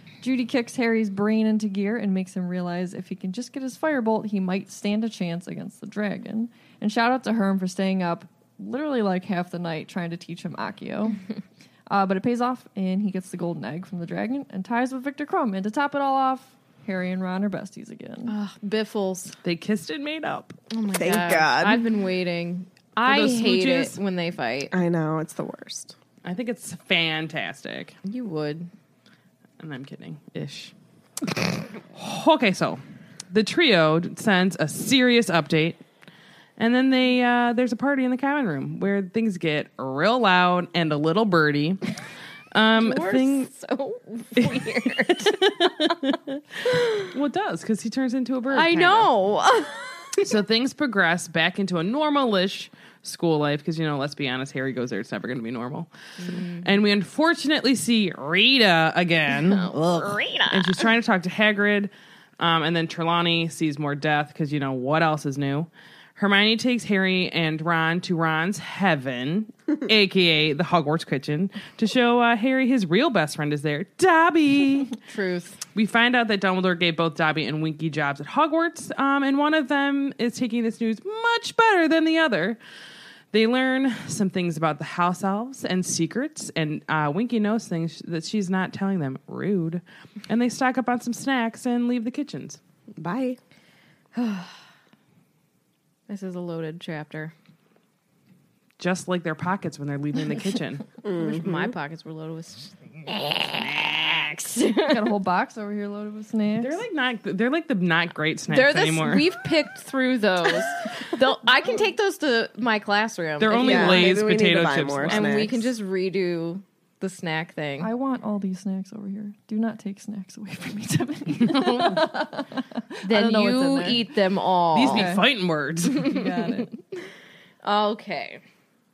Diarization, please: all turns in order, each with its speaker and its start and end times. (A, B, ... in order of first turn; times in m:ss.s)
0:00.2-0:11.2 A
0:11.9-0:18.3 A
0:18.3-0:19.4 B
0:19.4-0:20.6 C
0:20.7-0:24.7 B
0:20.9-0:21.8 D
0:23.0-0:24.0 C
0:24.7-0:26.0 D
0:26.2-0:28.0 C
0:28.0-0:28.7 B
0:29.6-0:30.7 C
0:31.9-0:35.8 C
0:36.6-0:41.8 C
0:42.5-0:43.5 C
0:42.7-0:45.9 B
0:44.4-0:49.1 C
0:46.7-0:47.1 B
0:48.5-0:50.3 B
0:50.2-0:59.9 C
0:56.2-0:56.7 B
0:59.3-1:00.9 B
1:00.5-1:15.0 C
1:15.0-1:15.6 B
1:15.7-1:22.6 C
1:23.3-1:32.6 C
1:33.0-1:33.4 D
1:34.1-1:34.5 B
1:36.1-1:37.3 B
1:38.8-1:40.9 C
1:41.0-1:41.7 D
1:41.1-1:45.1 B
1:44.9-1:46.8 A
1:46.6-1:49.3 C
1:48.5-1:54.2 B
1:53.4-1:55.5 C
1:53.6-1:55.6 D
1:55.1-1:57.9 B
1:57.8-2:04.0 A
2:01.3-2:02.0 C
2:03.0-2:05.1 B
2:04.7-2:06.1 C
2:04.9-2:05.2 A
2:06.0-2:06.7 A
2:06.1-2:06.7 B
2:07.6-2:08.4 B